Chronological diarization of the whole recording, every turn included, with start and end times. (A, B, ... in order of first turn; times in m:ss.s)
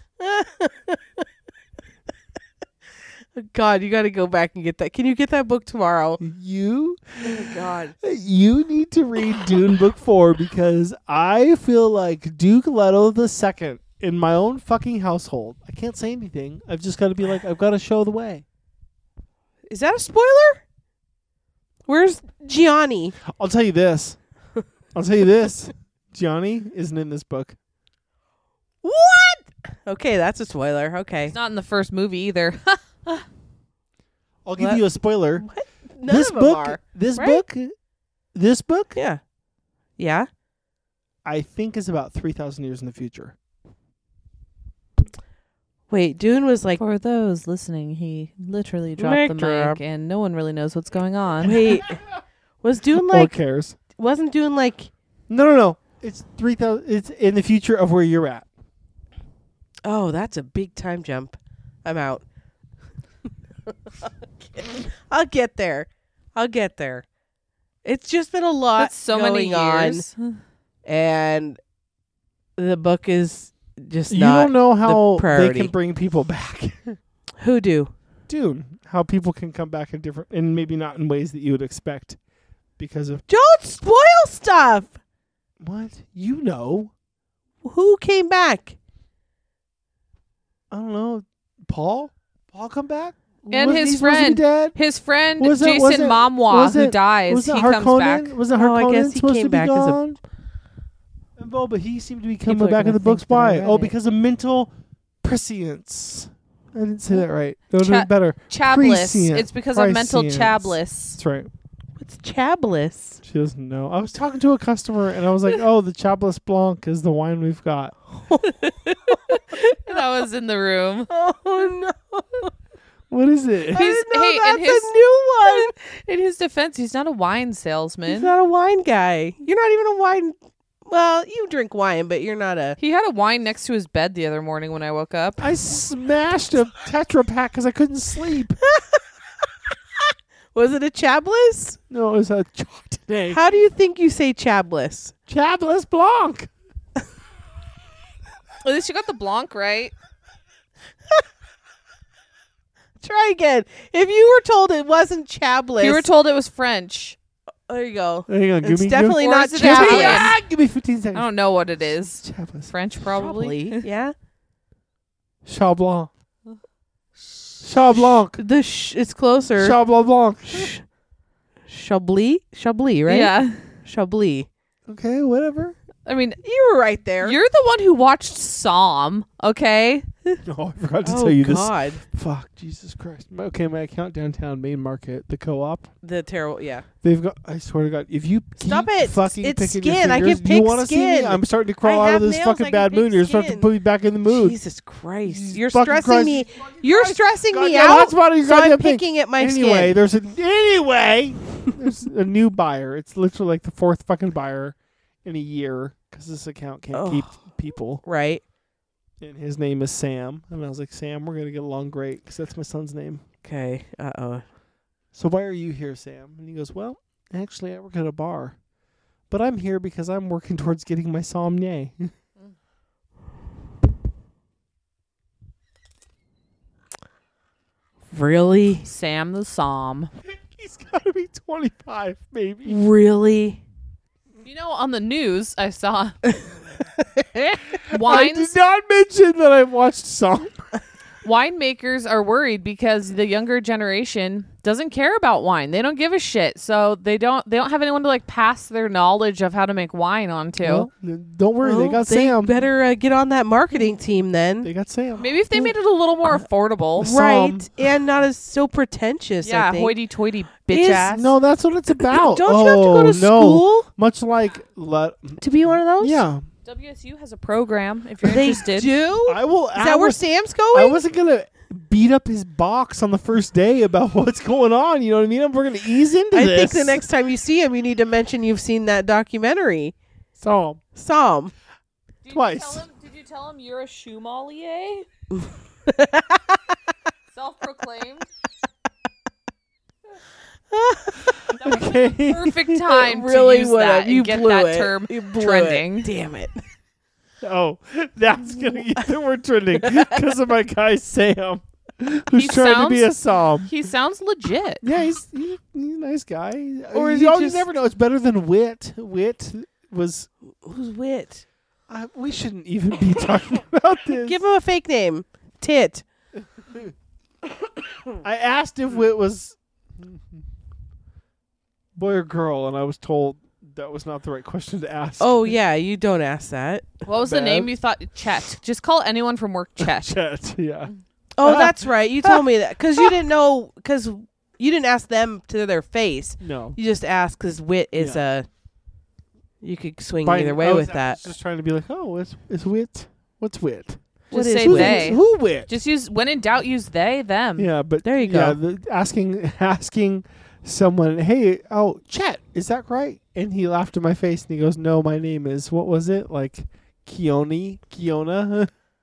0:00.2-0:01.2 A
0:03.4-0:06.2 A
0:06.2-0:18.4 B
0:07.2-0:07.9 A
0:19.7-0:20.6 A
0:21.9-0:23.2 A
0:23.3-0:24.2 B
0:24.9-0:27.6 B
0:28.8-0:31.4 A
0:31.3-0:33.2 C
0:34.5-0:35.4 B
0:34.6-0:34.8 A
0:35.4-0:37.4 A
0:36.1-0:37.7 B
0:38.3-0:39.0 B
0:39.0-0:39.2 A
0:40.0-0:40.3 A
0:41.2-0:43.4 B
0:45.9-0:46.8 A
0:46.8-0:51.8 C
0:49.0-0:49.8 A
0:51.4-0:52.0 A
0:51.5-0:52.0 B
0:52.6-0:53.3 A
0:53.0-0:53.8 B
0:54.0-0:54.9 A
0:55.3-0:58.5 B
0:59.8-1:02.2 A
1:04.0-1:07.1 A
1:07.8-1:10.0 A
1:08.8-1:10.4 C
1:10.9-1:11.6 A
1:12.6-1:15.7 A
1:14.1-1:17.0 B
1:17.4-1:17.9 A
1:18.3-1:22.2 B
1:22.8-1:23.2 B
1:23.3-1:25.0 A
1:25.6-1:26.9 B
1:27.6-1:28.8 A
1:30.7-1:34.8 B
1:33.5-1:38.4 C
1:35.4-1:40.2 B
1:38.5-1:40.0 A
1:41.4-1:44.7 B
1:42.5-1:43.9 A
1:45.2-1:51.5 B
1:47.8-1:51.2 C
1:52.0-1:53.2 A
1:53.2-1:58.0 B
1:58.3-1:59.9 A
1:59.3-2:01.1 C
2:01.1-2:02.5 A
2:03.1-2:03.9 B
2:03.7-2:05.7 A
2:03.7-2:08.3 C
2:08.1-2:10.4 A
2:10.9-2:12.8 A
2:12.8-2:15.5 C
2:15.4-2:18.6 B
2:18.7-2:19.0 A
2:20.5-2:21.8 A
2:21.9-2:23.4 B
2:23.3-2:25.1 A
2:25.3-2:26.5 B
2:28.6-2:29.9 C
2:33.0-2:36.1 A
2:35.8-2:37.2 C
2:37.7-2:40.3 A
2:38.3-2:41.3 B
2:39.2-2:40.4 C
2:41.1-2:43.8 C
2:42.2-2:42.7 B
2:43.1-2:44.1 A
2:45.4-2:46.1 B
2:47.6-2:48.4 B
2:48.3-2:49.8 A
2:49.6-2:50.7 B
2:50.5-2:50.8 A
2:51.7-2:53.3 A
2:53.1-2:53.6 C
2:53.8-2:54.5 A
2:54.9-2:55.8 B
2:56.1-2:56.4 C
2:56.4-2:57.4 A
2:57.2-3:00.1 C
3:00.4-3:05.9 B
3:01.0-3:02.0 A
3:06.0-3:06.9 A
3:07.0-3:14.6 B
3:08.6-3:13.7 A
3:14.3-3:20.0 A
3:15.2-3:28.0 B
3:26.9-3:27.4 A
3:28.0-3:28.4 A
3:29.2-3:33.2 B
3:33.4-3:34.4 A
3:35.1-3:38.6 B
3:39.3-3:42.1 B
3:48.1-3:48.9 A
3:48.8-3:50.1 C
3:50.3-3:52.8 B
3:52.6-3:53.6 A
3:54.4-3:56.2 C
3:57.2-3:57.6 A
3:57.9-4:00.6 B
3:57.9-3:58.5 C
4:01.2-4:10.9 C
4:10.6-4:12.6 B
4:11.6-4:14.7 A
4:14.6-4:15.7 B
4:15.2-4:17.2 C
4:17.0-4:17.7 B
4:17.0-4:19.9 A
4:19.4-4:21.3 C
4:20.7-4:21.1 A
4:21.1-4:25.4 B
4:22.1-4:23.9 A
4:25.4-4:26.2 A
4:26.0-4:26.4 B
4:26.6-4:28.9 C
4:28.2-4:31.0 A
4:29.3-4:37.0 B
4:36.3-4:40.0 A
4:40.4-4:40.8 B
4:40.9-4:41.5 A
4:42.2-4:45.1 C
4:42.3-4:42.8 B
4:45.3-4:46.6 A
4:47.3-4:48.3 C
4:50.7-4:51.5 A
4:51.5-4:52.8 B
4:51.6-4:56.1 C
4:52.9-4:56.6 A
4:57.4-5:03.7 B
4:59.8-5:00.2 A
5:02.4-5:03.1 C
5:03.7-5:04.9 C
5:04.8-5:10.3 B
5:06.9-5:07.7 A
5:10.6-5:11.4 A
5:11.9-5:14.4 B
5:14.2-5:16.0 A
5:18.2-5:20.4 B
5:22.0-5:25.6 B
5:25.2-5:27.0 A
5:27.1-5:30.1 C
5:27.2-5:27.7 B
5:29.8-5:30.9 B
5:31.4-5:38.5 A
5:31.4-5:32.4 B
5:36.4-5:36.8 B
5:39.6-5:41.2 A
5:40.2-5:44.0 B
5:44.3-5:47.7 C
5:44.3-5:45.2 A
5:44.6-5:45.7 B
5:47.6-5:58.7 B
5:48.0-5:48.6 A